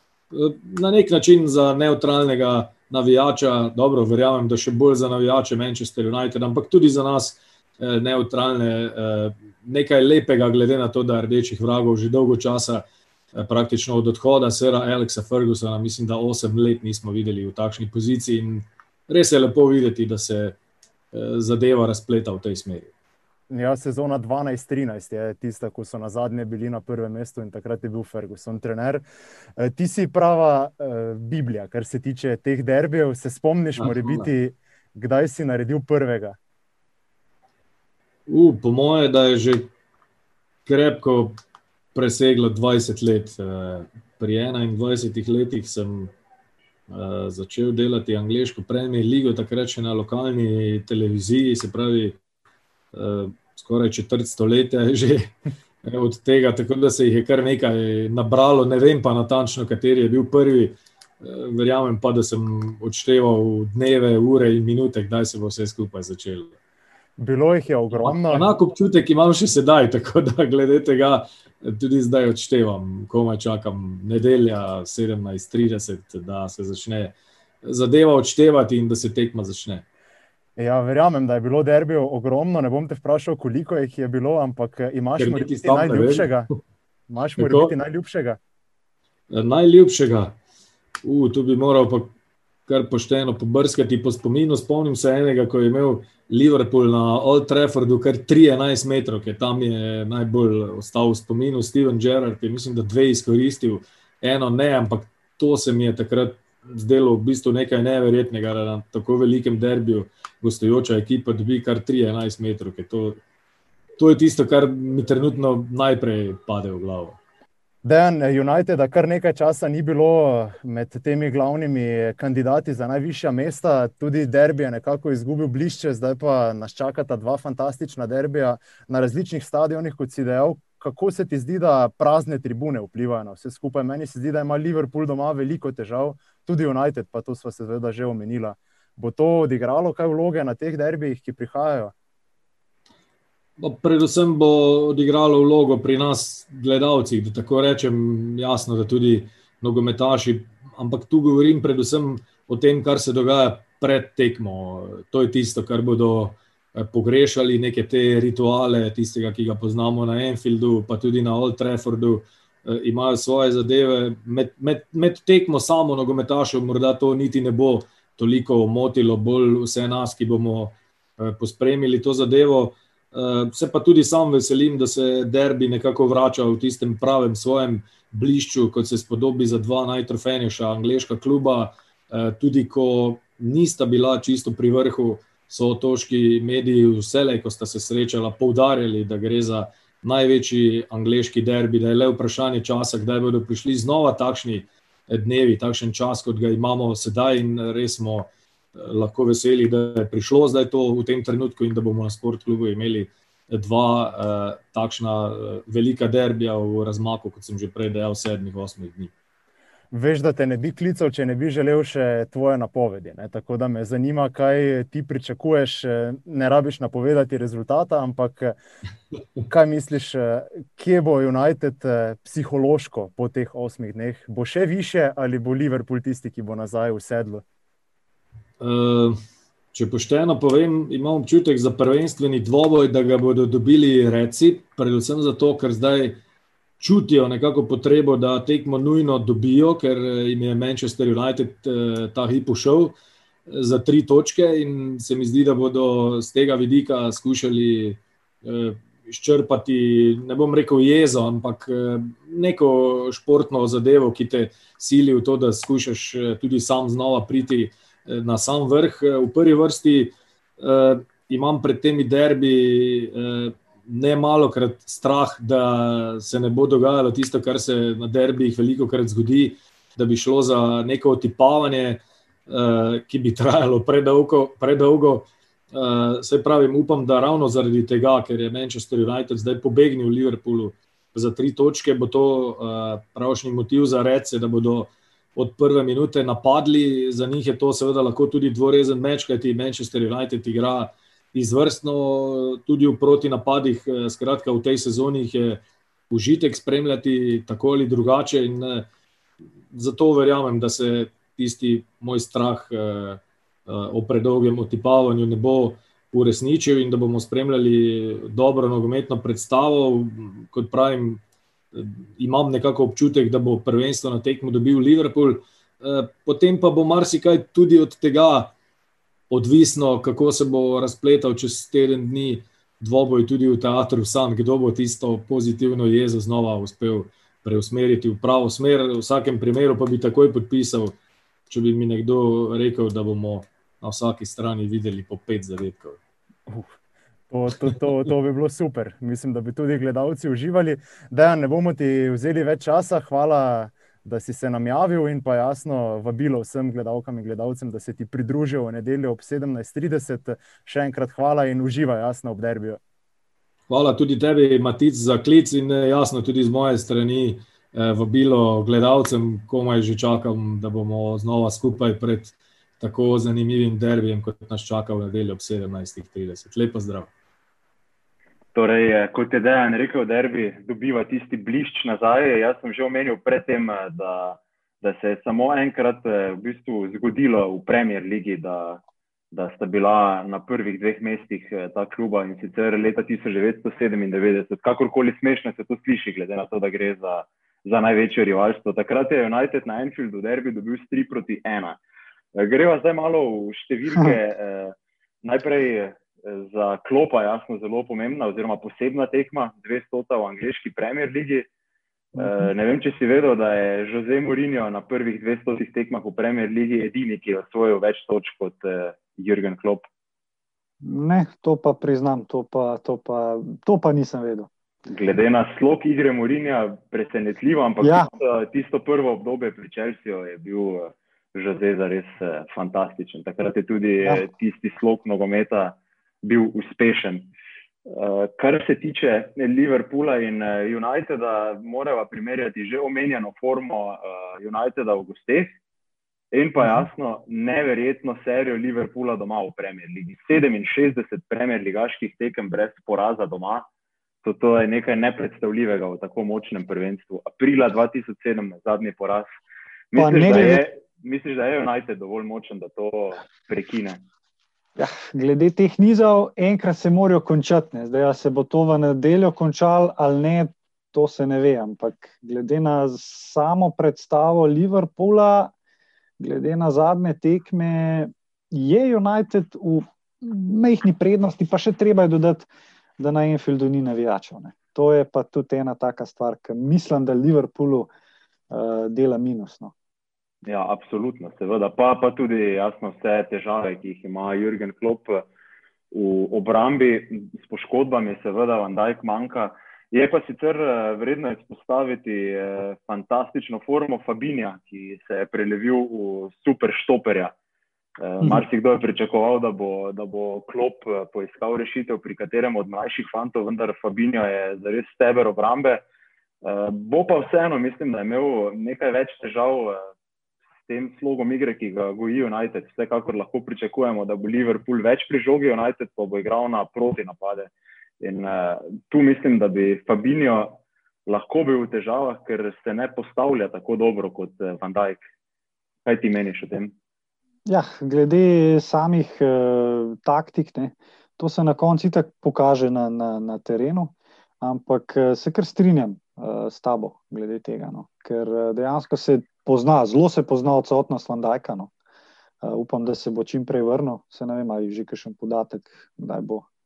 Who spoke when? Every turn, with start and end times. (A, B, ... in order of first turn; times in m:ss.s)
0:00.3-0:20.6 A
0:21.1-0:22.9 A
0:23.5-0:29.0 B
0:29.6-0:36.4 B
0:33.8-0:34.2 A
0:38.3-0:39.7 A
0:40.7-0:41.4 A
0:41.9-0:46.1 A
0:46.9-0:52.2 A
0:52.9-1:06.5 A
1:07.2-1:08.5 B
1:07.9-1:19.8 A
1:20.6-1:26.5 B
1:25.2-1:26.4 A
1:27.1-1:28.4 B
1:27.4-1:27.8 A
1:29.3-1:30.4 A
1:31.0-1:32.1 A
1:32.7-1:53.2 A
1:54.0-1:57.2 A
1:57.8-2:21.9 B
2:23.6-3:29.1 A
3:29.9-3:38.6 B
3:39.5-3:47.4 B
3:48.6-3:49.2 A
3:49.7-3:56.2 A
3:56.8-4:03.0 A
4:03.5-4:58.9 A
4:59.7-5:11.2 A
5:11.7-5:18.5 A
5:19.3-5:31.0 A
5:31.5-5:36.0 A
5:37.3-5:52.8 B
5:53.7-6:07.1 A
6:08.5-6:18.8 C
6:19.3-6:31.8 C
6:32.4-6:41.5 C
6:42.1-6:49.9 C
6:42.2-6:42.5 D
6:50.8-6:54.5 D
6:54.9-7:07.3 C
6:57.8-6:58.1 D
7:07.9-7:15.5 C
7:16.3-7:23.7 C
7:24.2-7:29.3 C
7:29.9-7:34.0 C
7:30.0-7:30.6 D
7:34.8-7:45.5 D
7:46.2-7:57.9 D
7:58.5-7:59.7 D
8:00.5-8:05.2 C
8:05.9-8:17.3 C
8:18.0-8:25.8 C
8:26.4-8:29.9 C
8:30.6-8:45.0 C
8:45.8-8:46.7 C
8:47.5-9:01.7 D
9:02.4-9:06.5 D